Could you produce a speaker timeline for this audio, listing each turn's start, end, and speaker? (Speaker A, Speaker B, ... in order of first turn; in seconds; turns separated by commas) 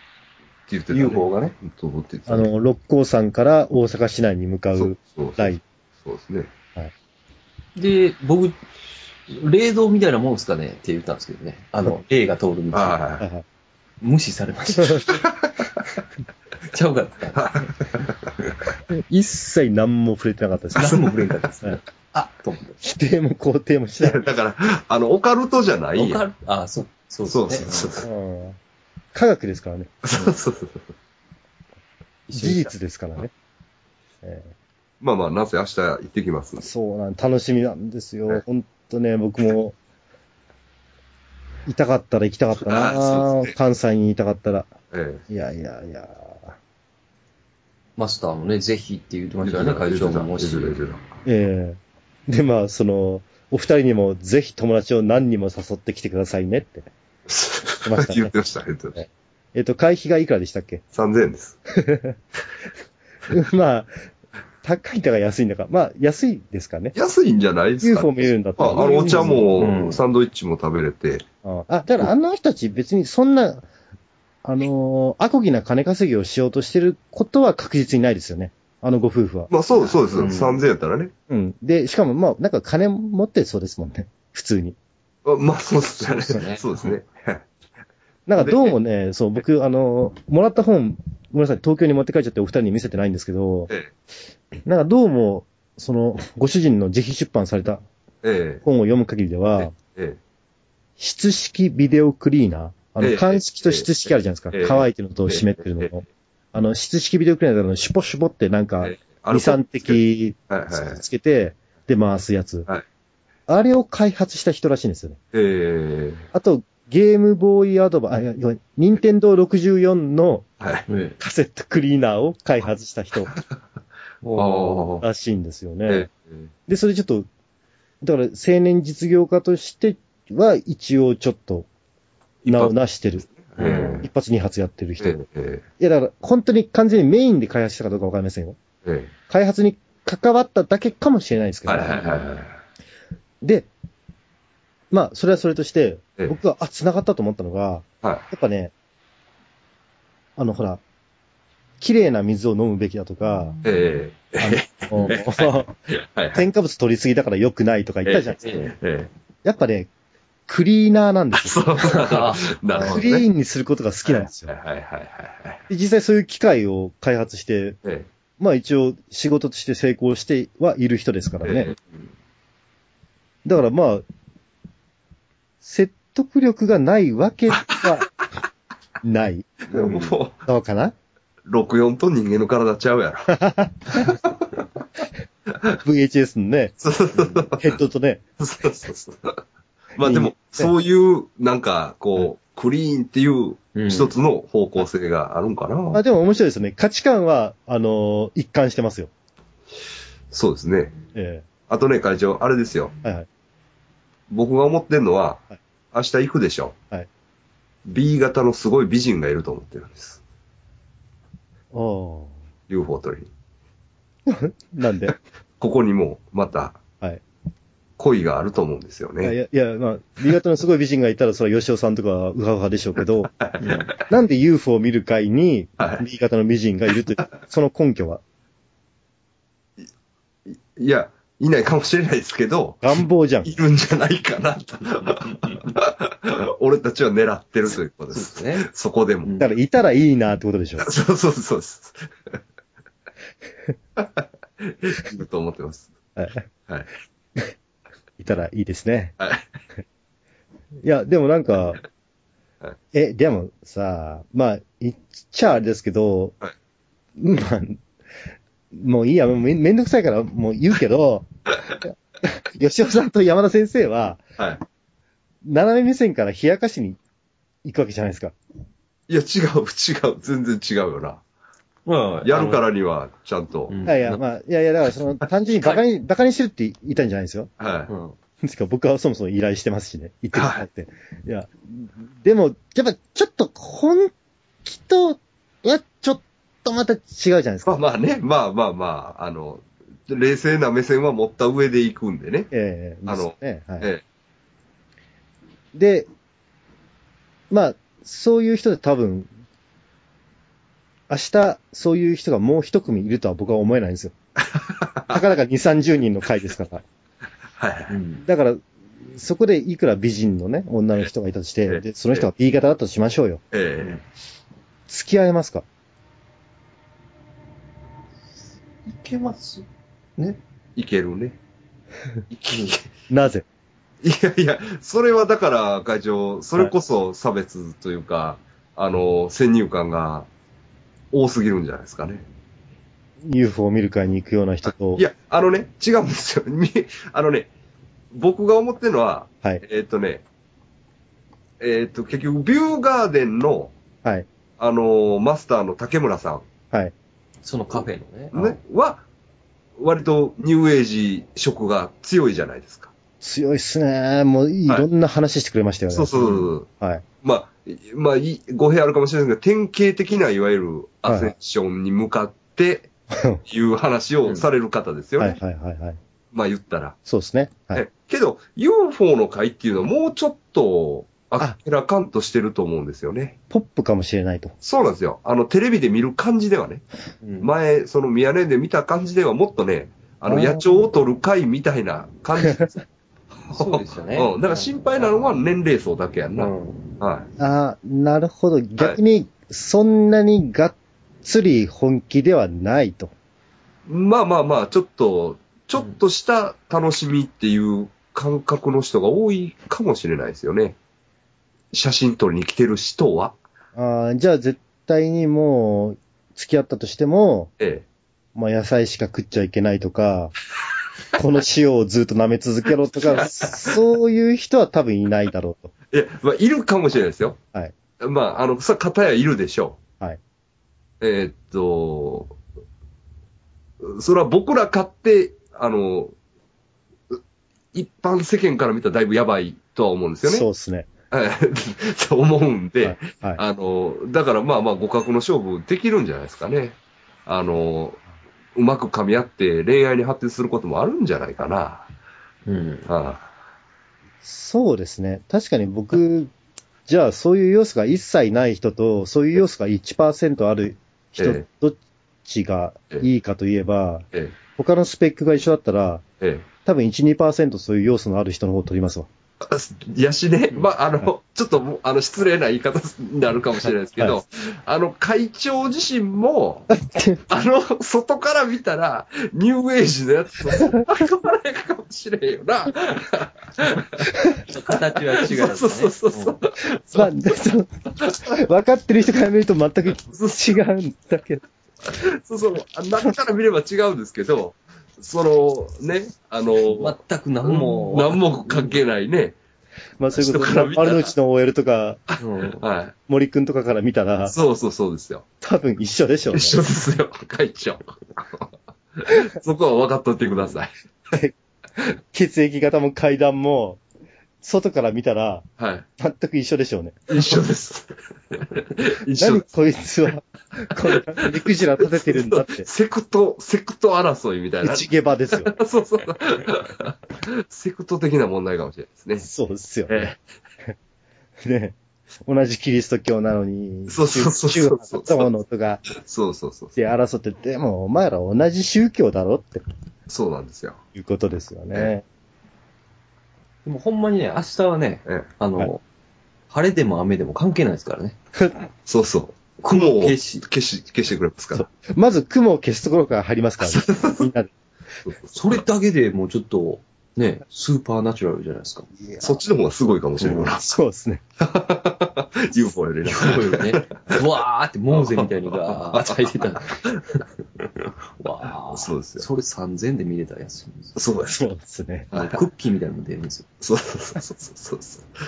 Speaker A: 0.7-2.5, Speaker B: 0.9-1.6, Speaker C: 2.3-5.6, Speaker A: 4.8-6.5, Speaker B: 7.8-8.5, Speaker B: 9.3-13.0, Speaker A: 12.7-13.2, Speaker C: 13.2-13.4, Speaker B: 14.0-15.2, Speaker A: 15.4-15.7, Speaker B: 16.7-17.6, Speaker A: 17.3-18.3, Speaker C: 18.9-21.0, Speaker B: 20.8-22.8, Speaker A: 20.8-21.1, Speaker C: 22.8-24.2, Speaker A: 24.0-26.2, Speaker B: 26.0-28.0, Speaker A: 27.3-28.1, Speaker C: 28.0-28.6, Speaker C: 29.1-29.9, Speaker A: 30.0-30.9, Speaker B: 32.3-32.7, Speaker C: 32.3-33.3, Speaker C: 34.2-34.5, Speaker A: 35.0-36.7, Speaker C: 36.6-39.8, Speaker C: 41.7-44.7, Speaker A: 42.6-43.5, Speaker A: 44.9-45.2, Speaker C: 45.3-46.5, Speaker B: 48.0-50.8, Speaker A: 49.4-51.1, Speaker C: 51.2-56.9, Speaker A: 57.3-59.0, Speaker C: 57.8-58.3, Speaker C: 59.0-60.8, Speaker A: 60.9-61.6, Speaker C: 61.7-62.1, Speaker C: 63.3-63.9, Speaker C: 64.6-66.9, Speaker A: 66.9-71.2, Speaker C: 67.8-69.4, Speaker B: 68.8-70.0, Speaker C: 71.4-73.6, Speaker C: 74.4-79.5, Speaker A: 79.5-81.1, Speaker B: 79.8-80.6, Speaker C: 81.3-84.8, Speaker A: 85.2-87.5, Speaker B: 86.0-86.9, Speaker C: 88.3-93.7, Speaker A: 88.4-88.7, Speaker C: 94.6-97.8, Speaker A: 98.2-98.6, Speaker C: 98.6-99.7, Speaker A: 99.6-100.2, Speaker C: 101.0-112.7, Speaker A: 103.0-103.9, Speaker A: 104.5-105.9, Speaker A: 108.8-111.0, Speaker C: 113.5-115.2, Speaker A: 115.3-116.3, Speaker C: 116.3-120.5, Speaker A: 120.6-120.8, Speaker B: 120.9-121.2, Speaker C: 121.2-123.3, Speaker B: 124.2-124.9, Speaker A: 124.3-125.0, Speaker C: 125.0-126.1, Speaker A: 125.9-126.5, Speaker C: 126.7-127.3, Speaker C: 128.0-131.7, Speaker A: 132.4-132.7, Speaker C: 132.5-133.3, Speaker A: 133.2-134.1, Speaker B: 133.6-134.0, Speaker C: 134.0-135.2, Speaker A: 135.0-135.6, Speaker C: 135.8-138.6, Speaker A: 138.8-139.1, Speaker C: 139.3-142.1, Speaker A: 141.7-142.6, Speaker C: 143.4-143.7, Speaker C: 144.9-148.7, Speaker C: 150.4-150.8, Speaker C: 151.8-153.6, Speaker A: 153.6-156.4, Speaker C: 154.4-155.7, Speaker C: 156.3-158.6, Speaker A: 158.0-159.1, Speaker C: 159.4-159.9, Speaker C: 160.5-161.9, Speaker A: 161.3-163.2, Speaker B: 161.8-163.1, Speaker C: 162.8-164.5, Speaker A: 164.0-165.6, Speaker C: 165.7-167.8, Speaker A: 167.8-168.1, Speaker C: 168.4-171.7, Speaker A: 171.4-171.8, Speaker C: 173.4-174.0, Speaker C: 175.6-178.1, Speaker C: 179.0-179.6, Speaker A: 179.7-180.4, Speaker B: 179.7-180.1, Speaker C: 180.4-180.9, Speaker A: 181.4-183.3, Speaker C: 183.3-184.1, Speaker C: 185.8-186.7, Speaker A: 186.8-187.8, Speaker B: 187.1-187.5, Speaker C: 187.6-188.2, Speaker A: 188.4-189.4, Speaker A: 189.9-196.0, Speaker C: 190.0-190.7, Speaker B: 193.7-194.1, Speaker C: 195.9-199.1, Speaker A: 200.3-200.9, Speaker C: 201.1-201.4, Speaker A: 201.7-202.9, Speaker A: 204.3-206.7, Speaker A: 207.8-210.2, Speaker C: 211.7-212.3, Speaker A: 212.7-213.3, Speaker C: 214.3-215.2, Speaker A: 215.6-216.8, Speaker A: 218.0-219.3, Speaker C: 219.2-223.3, Speaker B: 223.6-223.9, Speaker C: 224.1-228.2, Speaker A: 230.5-239.3, Speaker C: 232.8-233.5, Speaker B: 238.1-238.7, Speaker B: 239.2-239.5, Speaker C: 239.4-240.9, Speaker A: 240.8-242.4, Speaker A: 244.0-245.9, Speaker C: 246.2-246.4, Speaker C: 248.2-249.1, Speaker A: 249.2-249.4, Speaker C: 250.8-251.8, Speaker C: 252.9-256.4, Speaker C: 257.2-257.8, Speaker C: 258.7-264.2, Speaker C: 265.4-267.0, Speaker C: 267.6-268.3, Speaker A: 269.1-271.2, Speaker B: 271.9-272.6, Speaker A: 272.2-273.8, Speaker B: 273.7-274.2, Speaker C: 273.9-277.5, Speaker A: 277.6-277.9, Speaker B: 277.9-278.1, Speaker C: 278.4-284.1, Speaker A: 280.3-280.6, Speaker C: 284.6-287.8, Speaker A: 287.6-292.5, Speaker C: 292.5-293.9, Speaker A: 293.1-294.0, Speaker C: 295.7-296.1, Speaker C: 297.5-299.3, Speaker C: 301.1-304.1, Speaker A: 304.5-305.2, Speaker C: 305.1-306.8, Speaker A: 307.6-307.9, Speaker B: 307.9-308.2, Speaker C: 308.2-313.4, Speaker A: 311.7-312.3, Speaker A: 313.5-314.0, Speaker C: 314.9-315.6, Speaker B: 318.9-319.6, Speaker A: 320.8-321.4, Speaker A: 322.3-322.9, Speaker C: 323.1-323.4, Speaker A: 324.0-330.3, Speaker A: 331.1-332.2, Speaker C: 333.2-335.0, Speaker A: 334.9-337.5, Speaker A: 338.1-340.2, Speaker A: 341.6-343.7, Speaker A: 344.6-346.4, Speaker B: 347.4-348.6, Speaker A: 348.3-349.0, Speaker A: 349.8-352.9, Speaker C: 353.2-356.1, Speaker A: 355.9-356.7, Speaker B: 356.1-356.5, Speaker C: 356.8-357.0, Speaker A: 357.2-362.9, Speaker C: 361.1-361.3, Speaker C: 363.1-363.4, Speaker A: 363.4-365.4, Speaker C: 365.2-366.0, Speaker A: 366.3-367.0, Speaker C: 367.1-367.8, Speaker A: 367.7-373.4, Speaker C: 373.5-374.5, Speaker A: 374.6-376.8, Speaker B: 377.2-377.5, Speaker A: 377.4-382.8, Speaker C: 380.2-380.6, Speaker A: 383.5-387.3, Speaker B: 383.5-384.7, Speaker B: 386.4-386.9, Speaker C: 387.4-393.1, Speaker A: 393.9-400.8, Speaker A: 401.7-403.3, Speaker C: 403.8-407.5, Speaker A: 407.6-407.8, Speaker C: 408.3-410.3, Speaker C: 411.1-415.7, Speaker A: 413.0-413.8, Speaker A: 415.9-417.4, Speaker A: 418.0-419.8, Speaker A: 421.0-422.3, Speaker A: 423.8-426.1, Speaker A: 427.7-430.4, Speaker C: 430.2-430.9, Speaker A: 431.1-438.0, Speaker C: 432.8-433.4, Speaker A: 438.5-441.9, Speaker B: 442.4-442.9, Speaker A: 442.9-443.3, Speaker C: 444.2-446.3, Speaker C: 446.9-456.0, Speaker A: 451.2-451.4, Speaker A: 456.2-456.4, Speaker C: 456.6-459.1, Speaker A: 459.4-466.7, Speaker C: 466.7-467.2, Speaker A: 467.3-474.1, Speaker C: 470.6-470.9, Speaker B: 474.4-476.4, Speaker A: 475.2-477.1, Speaker C: 476.9-481.4, Speaker A: 480.0-480.5, Speaker A: 481.9-489.4, Speaker B: 486.6-488.8, Speaker C: 490.0-492.0, Speaker A: 490.1-491.1, Speaker A: 492.1-492.9, Speaker B: 492.2-492.6, Speaker C: 493.1-494.4, Speaker A: 494.2-495.2, Speaker C: 495.4-496.6, Speaker A: 496.3-500.7, Speaker C: 502.1-503.8, Speaker C: 504.4-505.5, Speaker A: 505.6-505.9, Speaker C: 506.0-507.4, Speaker A: 507.1-509.5, Speaker C: 509.2-512.7, Speaker A: 510.8-519.2, Speaker C: 514.6-515.5, Speaker C: 519.2-520.1, Speaker A: 519.9-520.2, Speaker C: 521.4-525.8, Speaker A: 523.9-525.3, Speaker A: 525.9-526.8, Speaker C: 526.8-529.6, Speaker A: 530.1-530.8, Speaker C: 530.9-532.0, Speaker B: 533.6-535.8, Speaker B: 536.5-538.1, Speaker C: 538.4-538.6, Speaker A: 538.9-541.7, Speaker B: 539.6-540.4, Speaker C: 541.5-544.5, Speaker A: 543.6-544.3, Speaker A: 545.0-545.6, Speaker B: 545.3-548.9, Speaker C: 549.0-549.4, Speaker A: 549.2-550.6, Speaker B: 550.2-550.5, Speaker C: 550.6-551.2, Speaker A: 551.4-554.2, Speaker B: 553.0-560.9, Speaker A: 554.9-556.2, Speaker A: 558.7-559.3, Speaker A: 560.9-561.4, Speaker C: 561.3-562.1, Speaker A: 562.1-562.4, Speaker B: 562.1-563.5, Speaker A: 563.6-565.1